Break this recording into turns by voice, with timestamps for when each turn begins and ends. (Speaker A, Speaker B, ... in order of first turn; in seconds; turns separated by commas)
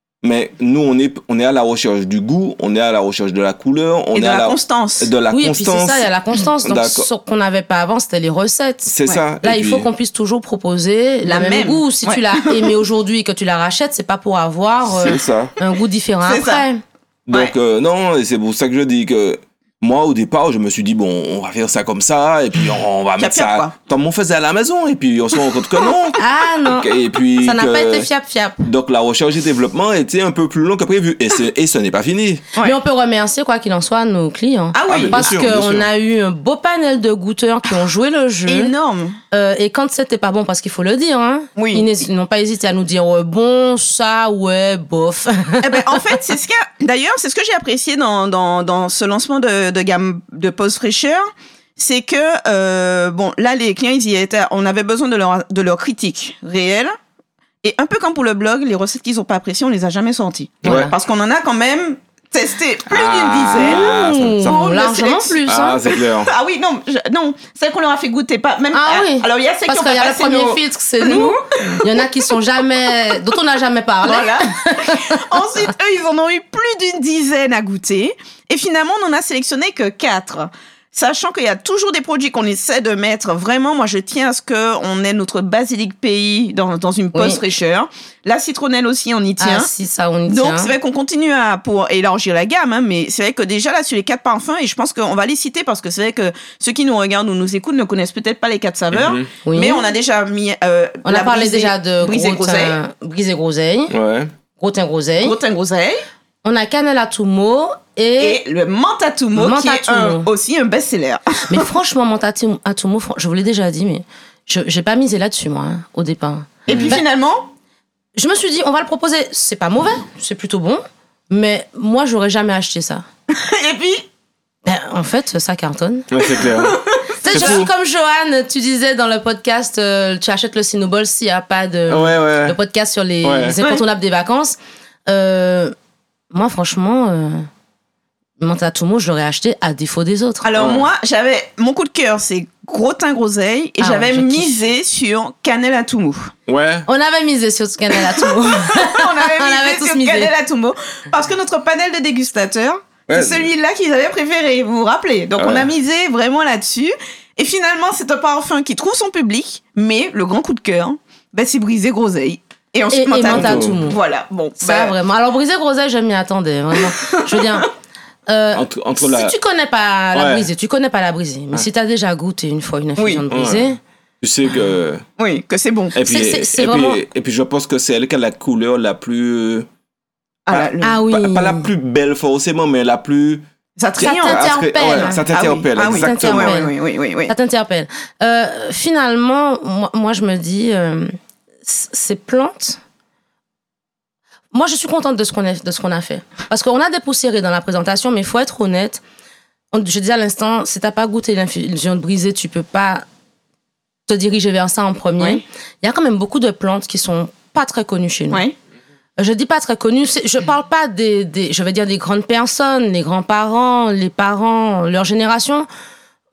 Speaker A: 0.2-6.1, Speaker B: 4.1-5.1, Speaker C: 5.3-16.8, Speaker A: 6.6-7.1, Speaker A: 8.9-9.9, Speaker B: 11.2-12.7, Speaker A: 14.8-15.5, Speaker B: 16.2-16.6, Speaker A: 17.3-28.1, Speaker B: 23.2-23.7, Speaker C: 26.2-28.6, Speaker A: 28.6-32.4, Speaker C: 32.6-38.7, Speaker B: 34.7-35.4, Speaker A: 34.9-35.9, Speaker B: 38.5-39.2, Speaker C: 39.3-46.2, Speaker B: 41.6-41.9, Speaker B: 45.6-51.2, Speaker B: 51.8-56.9, Speaker B: 57.6-72.4, Speaker A: 60.6-60.9, Speaker C: 60.6-60.9, Speaker A: 62.9-64.7, Speaker C: 63.5-65.8, Speaker A: 65.5-66.3, Speaker C: 68.7-75.6, Speaker B: 74.0-89.7, Speaker C: 87.1-87.4, Speaker C: 89.4-90.7, Speaker B: 90.3-102.8, Speaker A: 98.9-99.3, Speaker C: 99.4-99.8, Speaker C: 101.0-104.0, Speaker A: 103.9-104.3, Speaker C: 104.6-105.3, Speaker B: 105.2-106.0, Speaker C: 106.4-108.4, Speaker B: 108.2-111.7, Speaker C: 109.3-110.3, Speaker C: 111.5-117.0, Speaker A: 116.7-117.0, Speaker B: 116.7-117.5, Speaker C: 118.2-123.0, Speaker B: 123.3-124.0, Speaker C: 124.7-126.1, Speaker A: 126.1-127.7, Speaker B: 126.2-127.6, Speaker C: 127.2-134.6, Speaker A: 131.9-132.6, Speaker A: 133.2-133.6, Speaker C: 135.1-135.7, Speaker C: 136.3-137.5, Speaker C: 138.4-140.5, Speaker B: 140.4-146.3, Speaker A: 140.6-140.9, Speaker C: 143.8-144.5, Speaker A: 146.5-146.9, Speaker C: 146.9-150.3, Speaker B: 147.9-164.9, Speaker A: 153.1-153.5, Speaker A: 155.4-155.7, Speaker C: 162.9-164.0, Speaker A: 163.3-163.8, Speaker C: 164.6-167.7, Speaker B: 166.7-167.7, Speaker C: 168.3-173.8, Speaker A: 168.5-169.3, Speaker A: 170.1-170.5, Speaker B: 173.0-173.2, Speaker A: 173.3-173.7, Speaker A: 174.2-175.0, Speaker B: 175.2-176.0, Speaker A: 175.9-179.7, Speaker C: 176.0-177.0, Speaker B: 180.5-181.0, Speaker A: 180.5-183.4, Speaker C: 180.8-181.7, Speaker B: 183.8-187.3, Speaker A: 184.0-186.6, Speaker C: 184.0-186.7, Speaker C: 187.3-191.1, Speaker C: 191.6-192.8, Speaker C: 194.5-199.0, Speaker C: 199.7-203.0, Speaker C: 204.1-208.4, Speaker C: 209.2-215.7